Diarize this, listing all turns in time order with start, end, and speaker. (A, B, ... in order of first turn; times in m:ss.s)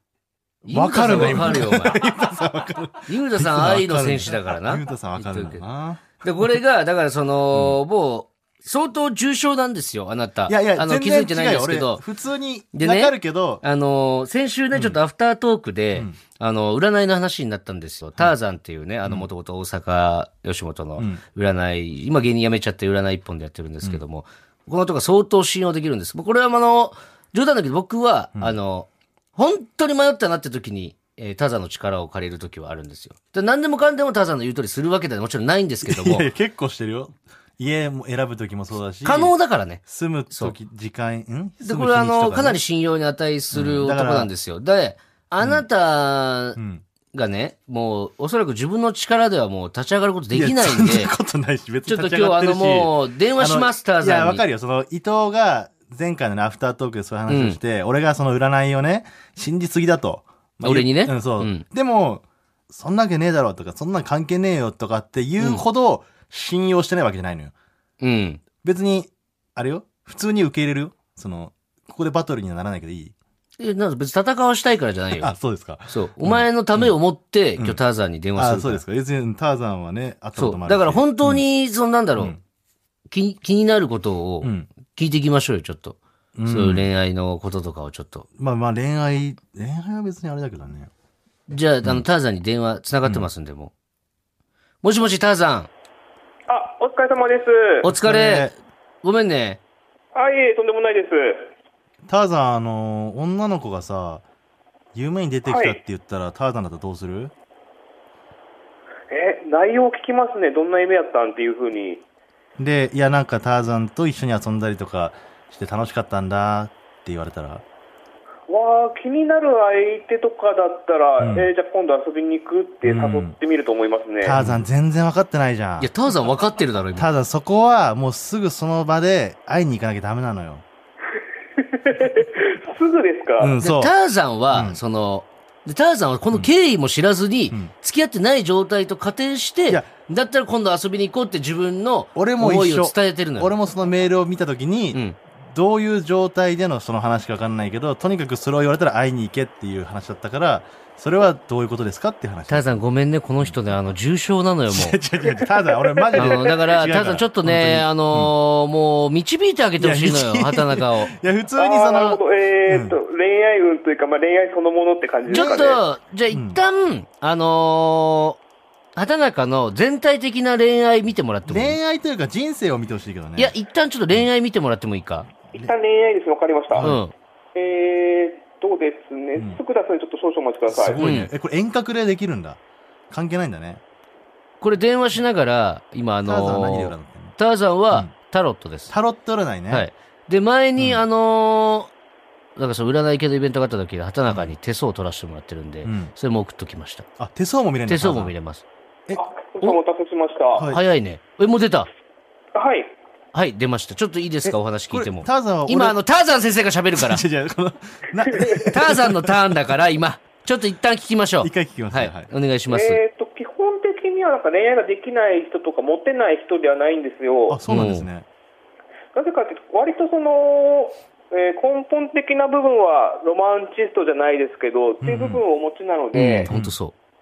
0:00.6-0:02.0 A
0:00.7-0:06.5 B
0:03.1-0:05.6 A
0:06.2-0:12.0 A
0:07.5-0:07.8 B
0:10.5-0:13.6 B
0:12.7-0:36.3 A
0:14.7-0:15.0 B
0:35.8-0:39.3 B
0:39.0-0:40.5 A
0:39.8-0:42.6 B
0:41.6-0:46.6 A
0:43.5-0:44.3 B
0:46.6-0:46.8 B
0:47.1-0:51.1 A
0:50.3-1:07.5 B
0:51.9-0:54.4 A
0:57.3-0:57.6 A
1:00.6-1:01.6 A
1:08.0-1:08.4 A
1:08.6-1:13.1 B
1:13.6-1:15.3 A
1:15.2-1:16.9 B
1:15.9-1:18.8 A
1:18.4-1:21.4 B
1:20.4-1:22.4 A
1:23.1-1:28.3 A
1:24.4-1:24.7 B
1:26.4-1:26.9 B
1:28.4-1:30.9 B
1:31.5-1:33.7 A
1:34.8-1:35.7 A
1:36.5-1:37.9 C
1:37.8-1:39.6 A
1:37.8-1:38.5 B
1:40.1-1:41.5 C
1:42.1-1:44.2 B
1:44.9-1:47.3 B
1:45.4-1:45.8 C
1:49.1-1:52.0 C
1:52.6-1:57.6 B
1:58.5-2:04.4 C
2:01.2-2:01.5 B
2:02.8-2:03.3 B
2:04.2-2:05.9 B
2:04.3-2:04.6 A
2:05.8-2:07.1 A
2:06.9-2:10.6 B
2:11.6-2:13.5 C
2:13.4-2:13.9 B
2:13.6-2:23.5 A
2:14.5-2:14.8 B
2:22.2-2:32.8 B
2:32.5-2:35.0 A
2:34.7-2:38.3 B
2:35.3-2:36.3 C
2:36.1-2:41.1 A
2:39.8-2:43.0 B
2:41.6-2:45.8 C
2:45.3-2:45.7 B
2:45.3-2:48.4 A
2:46.3-2:46.6 B
2:49.0-2:51.8 A
2:51.5-2:53.5 B
2:53.4-2:55.3 A
2:55.5-2:56.9 C
2:56.7-2:57.0 B
2:56.8-2:57.1 A
2:57.5-3:01.0 C
3:00.7-3:03.8 B
3:01.0-3:01.3 A
3:04.6-3:08.9 A
3:06.2-3:07.4 B
3:08.9-3:09.9 B
3:09.7-3:11.9 A
3:10.8-3:11.0 B
3:12.6-3:17.1 A
3:14.3-3:14.5 B
3:15.8-3:16.1 B
3:17.2-3:18.3 B
3:17.9-3:18.6 A
3:19.1-3:20.7 C
3:20.5-3:20.8 B
3:20.7-3:21.9 A
3:22.5-3:22.9 C
3:23.3-3:27.2 A
3:24.5-3:26.0 B
3:26.9-3:29.4 B
3:28.3-3:28.7 C
3:28.7-3:33.0 A
3:31.4-3:32.3 B
3:32.7-3:37.6 C
3:37.5-3:38.3 B
3:37.7-3:38.1 A
3:39.1-3:46.5 C
3:45.0-3:45.4 B
3:46.1-3:46.9 A
3:46.5-3:46.7 B